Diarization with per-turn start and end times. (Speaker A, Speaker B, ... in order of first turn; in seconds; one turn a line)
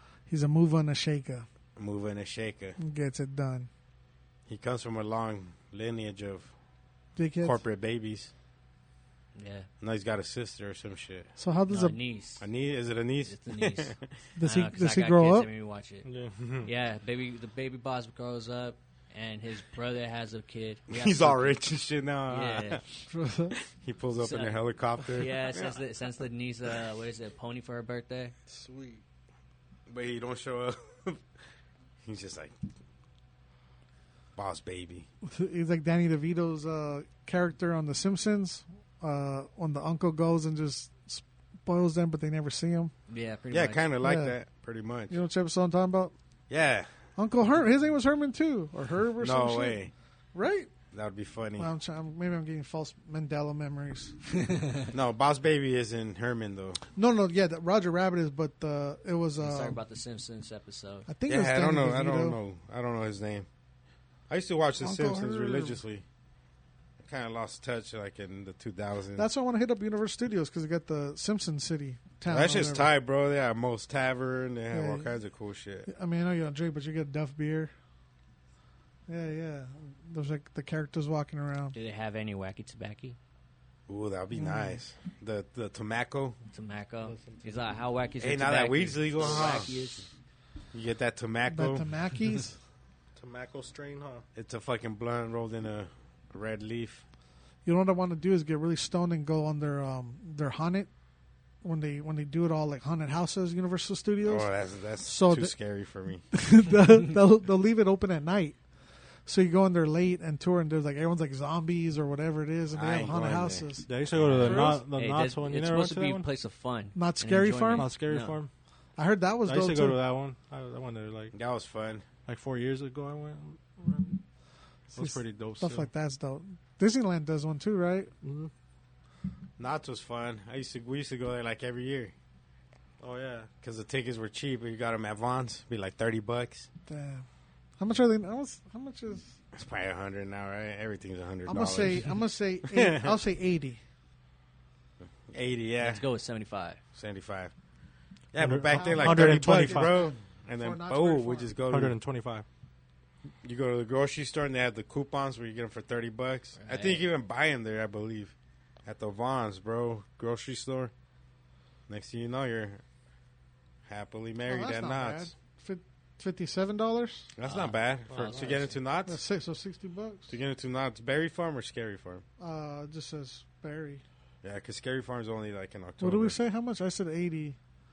Speaker A: 0.3-1.4
Speaker B: 1.8-2.8
Speaker A: 2.8-3.7
Speaker B: 4.5-6.5
Speaker A: 7.2-7.6
Speaker B: 7.4-8.3
Speaker C: 9.3-9.7
Speaker B: 9.8-11.3
Speaker A: 11.4-11.9
Speaker C: 11.7-12.4
Speaker B: 12.4-14.1
Speaker C: 13.2-16.1
Speaker A: 14.3-15.5
Speaker D: 16.0-16.6
Speaker C: 16.6-21.6
Speaker B: 20.9-22.8
Speaker C: 22.3-22.8
Speaker A: 23.1-23.5
Speaker B: 23.5-25.8
Speaker C: 24.2-28.3
Speaker D: 28.5-29.0
Speaker B: 29.9-31.2
Speaker B: 32.0-32.5
Speaker B: 34.4-35.1
Speaker A: 35.2-42.9
Speaker C: 43.1-43.9
Speaker B: 43.5-45.2
Speaker A: 44.0-44.3
Speaker A: 45.1-46.1
Speaker B: 46.5-46.9
Speaker A: 47.1-49.8
Speaker B: 49.2-49.9
Speaker A: 50.3-50.7
Speaker B: 50.9-51.7
Speaker A: 51.6-54.2
Speaker B: 54.9-56.8
Speaker A: 56.9-59.8
Speaker C: 59.4-61.1
Speaker A: 61.1-62.4
Speaker B: 61.3-63.5
Speaker B: 64.3-66.0
Speaker A: 64.8-65.8
Speaker B: 67.0-69.3
Speaker A: 69.2-72.9
Speaker B: 72.3-75.9
Speaker A: 74.7-75.1
Speaker A: 75.9-77.7
Speaker A: 79.1-81.7
Speaker C: 81.7-83.2
Speaker B: 83.9-86.4
Speaker A: 84.3-84.8
Speaker C: 86.5-90.1
Speaker D: 87.0-87.5
Speaker B: 88.2-89.7
Speaker B: 90.7-91.8
Speaker A: 91.5-92.6
Speaker D: 93.2-94.2
Speaker B: 94.3-97.0
Speaker A: 97.6-100.9
Speaker A: 101.6-104.5
Speaker B: 104.2-106.2
Speaker A: 105.0-105.5
Speaker A: 106.3-108.6
Speaker A: 109.2-114.8
Speaker B: 112.7-113.7
Speaker D: 113.9-116.3
Speaker C: 114.1-118.4
Speaker A: 116.9-117.9
Speaker D: 117.7-118.5
Speaker A: 119.0-120.0
Speaker D: 119.5-121.3
Speaker B: 121.3-122.0
Speaker D: 122.2-124.2
Speaker D: 124.9-125.9
Speaker A: 125.0-128.1
Speaker D: 128.2-128.5
Speaker B: 129.6-132.1
Speaker D: 133.0-133.5
Speaker B: 133.6-136.7
Speaker A: 136.9-137.2
Speaker A: 137.8-139.3
Speaker B: 139.5-142.1
Speaker A: 141.4-143.8
Speaker B: 142.6-143.2
Speaker B: 145.3-146.0
Speaker C: 145.8-146.8
Speaker B: 146.9-147.5
Speaker B: 148.3-152.0
Speaker D: 148.4-150.0
Speaker A: 148.7-151.6
Speaker D: 151.7-152.4
Speaker B: 153.4-158.3
Speaker C: 156.6-157.0
Speaker B: 158.8-160.9
Speaker B: 161.9-162.8
Speaker B: 163.9-165.3
Speaker A: 164.5-167.3
Speaker B: 167.4-169.2
Speaker C: 167.4-168.6
Speaker D: 168.1-168.7
Speaker A: 169.1-170.3
Speaker B: 170.3-172.2
Speaker A: 172.4-174.0
Speaker B: 174.4-176.4
Speaker A: 176.0-177.6